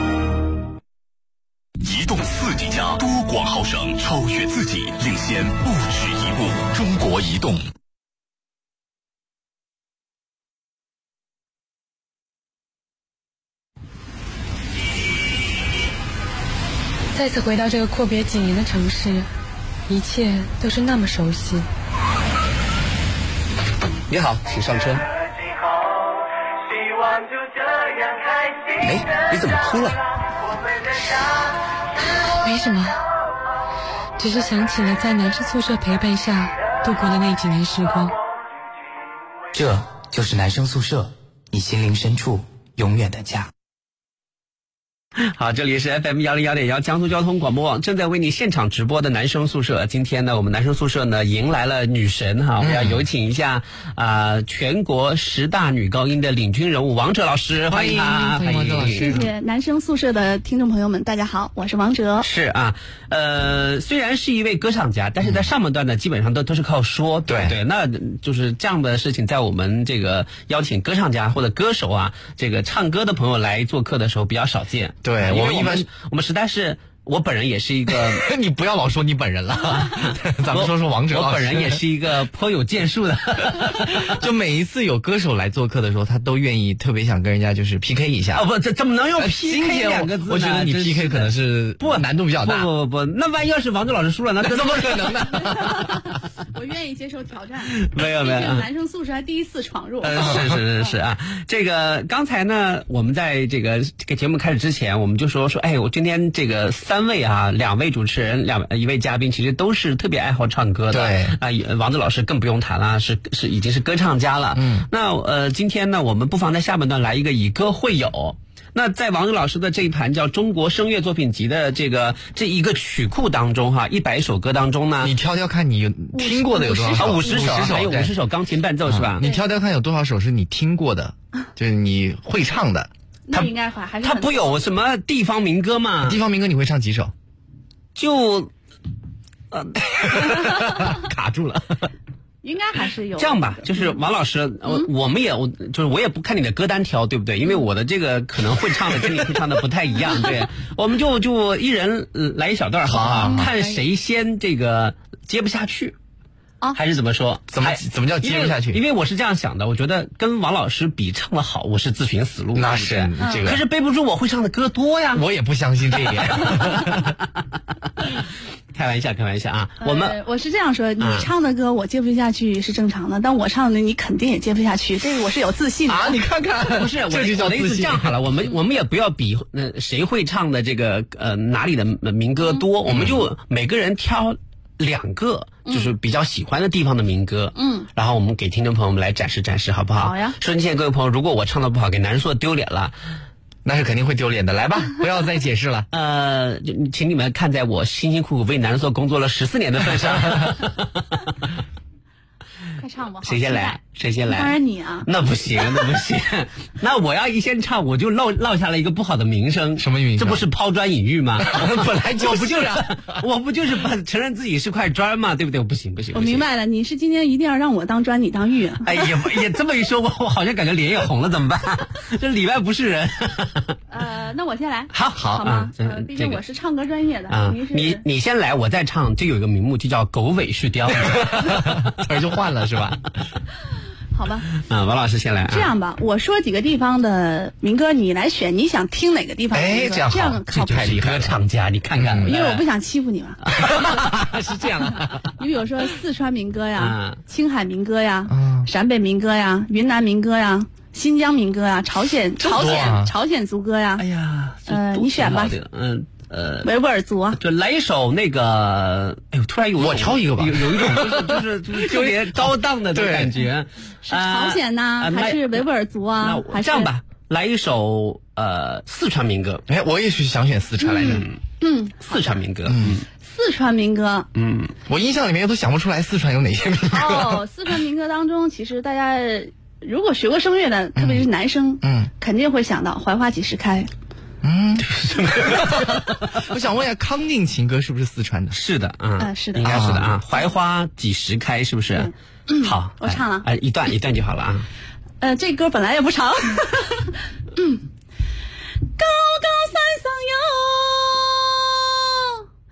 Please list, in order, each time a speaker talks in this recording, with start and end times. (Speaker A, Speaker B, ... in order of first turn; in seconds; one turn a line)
Speaker A: 2.0-7.5
Speaker B: 17.1-19.3
Speaker B: 19.9-21.7
Speaker C: 24.1-25.1
Speaker C: 28.8-30.0
Speaker B: 32.4-33.0
Speaker B: 34.2-38.1
Speaker D: 39.5-43.5
Speaker C: 45.2-59.2
Speaker E: 52.6-53.0
Speaker E: 57.7-59.3
Speaker F: 59.0-62.2
Speaker C: 62.2-78.3
Speaker E: 67.3-67.5
Speaker E: 75.0-75.9
Speaker E: 78.1-81.8
Speaker C: 79.7-84.1
Speaker E: 84.0-88.5
Speaker C: 88.3-95.3
Speaker E: 89.2-92.7
Speaker E: 94.4-95.9
Speaker F: 95.5-100.9
Speaker C: 97.8-98.7
Speaker C: 100.0-125.1
Speaker E: 110.9-111.4
Speaker E: 114.5-114.9
Speaker E: 125.0-128.1
Speaker F: 126.1-127.7
Speaker C: 126.7-129.2
Speaker E: 128.9-132.9
Speaker F: 133.3-134.6
Speaker C: 134.0-136.2
Speaker E: 136.0-137.1
Speaker C: 137.9-138.5
Speaker C: 139.5-141.6
Speaker F: 142.4-144.0
Speaker C: 143.2-155.9
Speaker E: 152.8-153.5
Speaker F: 153.3-153.7
Speaker C: 156.7-165.2
Speaker E: 157.5-158.8
Speaker E: 162.5-163.6
Speaker F: 163.2-163.4
Speaker E: 165.1-167.2
Speaker C: 166.4-167.1
Speaker C: 168.7-170.2
Speaker F: 169.8-176.2
Speaker C: 171.0-171.3
Speaker E: 175.9-178.2
Speaker C: 176.7-192.9
Speaker E: 182.9-183.2
Speaker F: 185.7-185.9
Speaker F: 187.6-187.9
Speaker F: 190.0-190.3
Speaker E: 193.6-195.9
Speaker C: 195.9-200.9
Speaker F: 202.8-205.1
Speaker C: 203.2-216.4
Speaker E: 209.8-210.5
Speaker E: 211.4-213.1
Speaker F: 216.1-218.9
Speaker C: 218.8-223.7
Speaker F: 223.9-228.0
Speaker C: 224.9-226.4
Speaker C: 227.3-232.0
Speaker E: 231.1-233.0
Speaker F: 234.1-234.5
Speaker C: 234.6-235.7
Speaker F: 235.5-240.8
Speaker E: 239.5-241.4
Speaker C: 240.5-242.6
Speaker E: 241.9-242.3
Speaker F: 242.2-243.4
Speaker C: 243.5-244.3
Speaker E: 243.6-245.2
Speaker F: 245.3-254.0
Speaker C: 246.8-247.2
Speaker E: 248.3-248.7
Speaker E: 252.4-253.1
Speaker C: 252.6-252.9
Speaker C: 254.0-256.7
Speaker F: 254.7-255.6
Speaker F: 256.6-257.4
Speaker C: 257.4-265.7
Speaker E: 259.8-263.4
Speaker F: 264.1-266.9
Speaker C: 266.2-269.6
Speaker E: 269.7-271.3
Speaker F: 270.8-272.4
Speaker C: 271.0-271.4
Speaker C: 272.1-273.1
Speaker E: 272.7-273.0
Speaker F: 273.2-274.3
Speaker C: 274.3-274.7
Speaker E: 274.9-277.4
Speaker F: 276.8-283.9
Speaker E: 280.9-281.3
Speaker E: 281.8-282.1
Speaker E: 284.4-288.6
Speaker C: 284.8-286.3
Speaker C: 288.5-294.6
Speaker F: 289.2-289.7
Speaker E: 289.6-290.1
Speaker F: 292.0-293.4
Speaker F: 295.2-297.8
Speaker F: 299.0-302.4